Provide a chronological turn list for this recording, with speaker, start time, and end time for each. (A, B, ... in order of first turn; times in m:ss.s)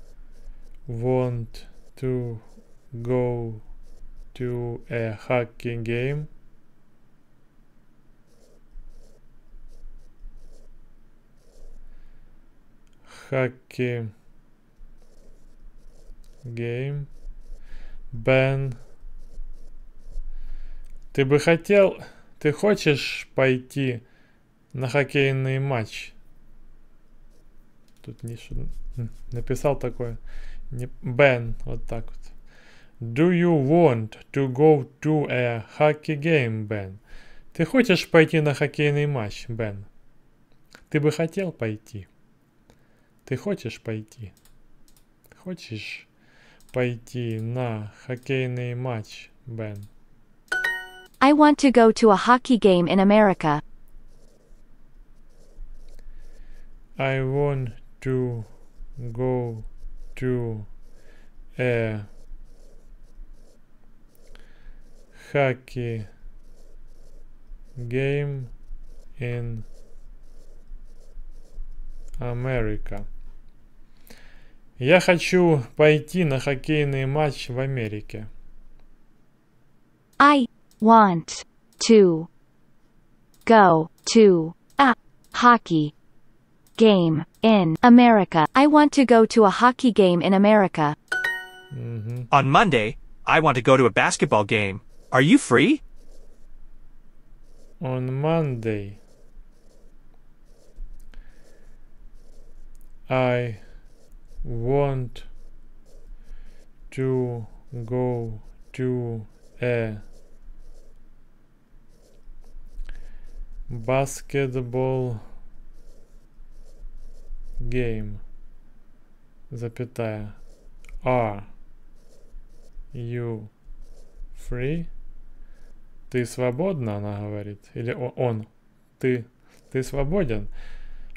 0:00.9-0:03.6 A
0:04.3-0:06.3 A
0:13.1-0:14.1 A
0:16.4-0:17.1 A
0:18.1-0:18.8 A
0:21.1-0:24.0 A
0:24.7-0:26.1 A
0:28.0-0:30.2 A
0:30.7-0:32.3 A
0:33.0-0:37.0 A
0:37.5-0:39.9 A
0:40.9-0:42.1 A
0:43.2-0:44.3 A
0:45.4-0:46.1 A
0:46.7-0:49.9 A
0:51.2-0:53.6 B
0:57.0-1:00.7 A
1:01.6-1:02.1 A
1:05.1-1:06.1 A
1:07.8-1:08.5 A
1:09.2-1:09.7 A
1:12.2-1:13.1 A
1:14.8-1:18.3 A
1:20.2-1:22.3 B
1:23.5-1:25.9 B
1:26.8-1:31.0 B
1:31.7-1:32.3 A
1:32.3-1:35.8 C
1:37.8-1:39.0 A
1:43.1-1:43.6 A
1:44.4-1:45.3 A
1:46.9-1:50.0 A
1:53.7-1:55.2 A
1:57.6-1:58.2 A
1:59.5-2:00.4 A
2:01.0-2:01.5 A
2:02.9-2:03.5 A
2:04.4-2:04.9 A
2:06.1-2:08.5 A
2:09.0-2:10.5 A